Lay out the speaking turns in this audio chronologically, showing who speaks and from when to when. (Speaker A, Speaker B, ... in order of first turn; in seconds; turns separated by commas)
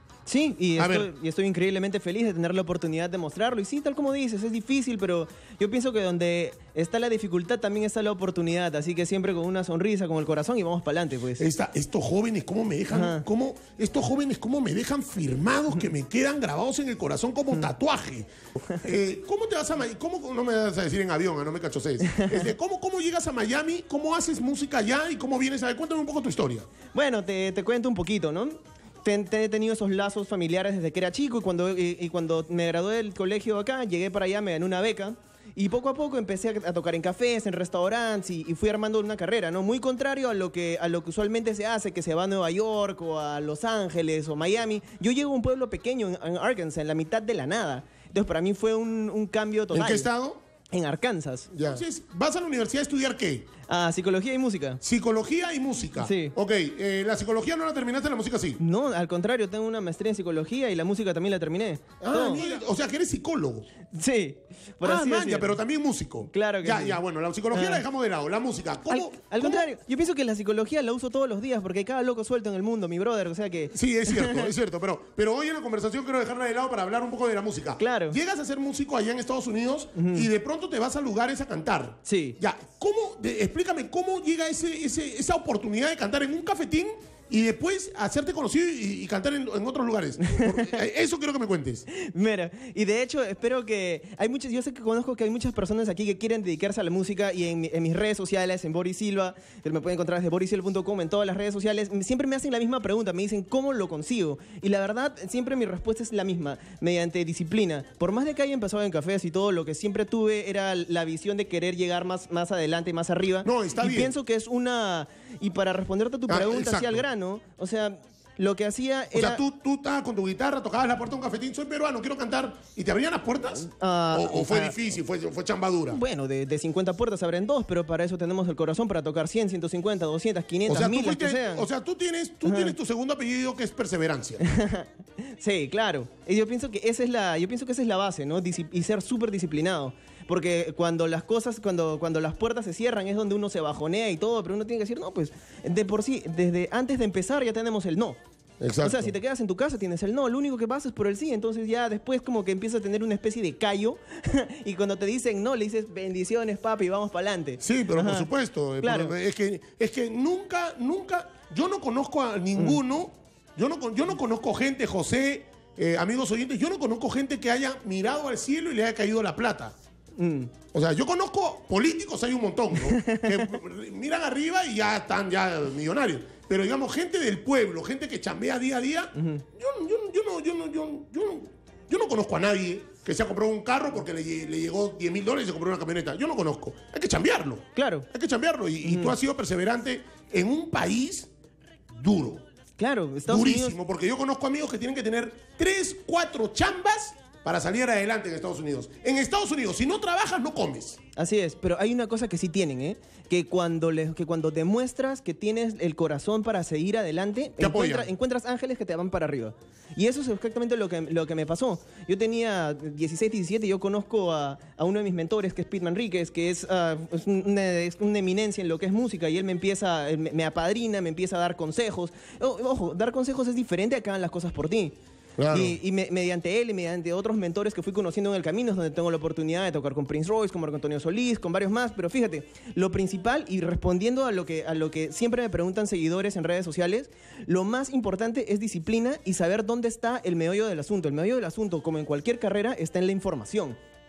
Speaker A: 0.3-11.4, Speaker B: 0.8-1.1, Speaker B: 11.4-26.7, Speaker A: 12.9-13.2, Speaker A: 22.0-22.4, Speaker A: 26.9-50.1, Speaker B: 49.7-50.4, Speaker A: 50.7-51.5, Speaker B: 51.5-53.5, Speaker A: 53.7-54.8, Speaker B: 54.8-58.6, Speaker A: 56.0-56.4, Speaker A: 58.6-62.6, Speaker B: 62.0-63.7, Speaker A: 63.9-65.6, Speaker B: 64.8-69.7, Speaker A: 66.3-67.0, Speaker A: 67.5-67.8, Speaker A: 68.9-74.5, Speaker B: 73.7-91.9, Speaker A: 77.8-78.2, Speaker A: 80.0-80.3, Speaker A: 82.1-82.4, Speaker A: 90.3-90.7, Speaker A: 91.9-119.4, Speaker B: 113.4-114.1, Speaker B: 116.3-117.0, Speaker B: 119.1-126.0, Speaker A: 123.6-124.8, Speaker A: 125.9-131.7, Speaker B: 130.7-134.4, Speaker A: 132.4-132.8, Speaker A: 134.4-148.2, Speaker B: 148.6-149.1, Speaker A: 148.8-158.3, Speaker B: 157.6-169.8, Speaker A: 158.8-159.1, Speaker A: 170.2-170.5, Speaker B: 170.7-191.3, Speaker A: 172.8-173.5, Speaker A: 179.2-179.4, Speaker A: 187.8-188.1, Speaker A: 188.8-189.2, Speaker B: 191.9-192.4, Speaker A: 192.8-193.8, Speaker B: 193.3-201.0, Speaker A: 201.2-225.0, Speaker B: 207.6-208.1, Speaker B: 225.4-225.8, Speaker A: 225.5-243.8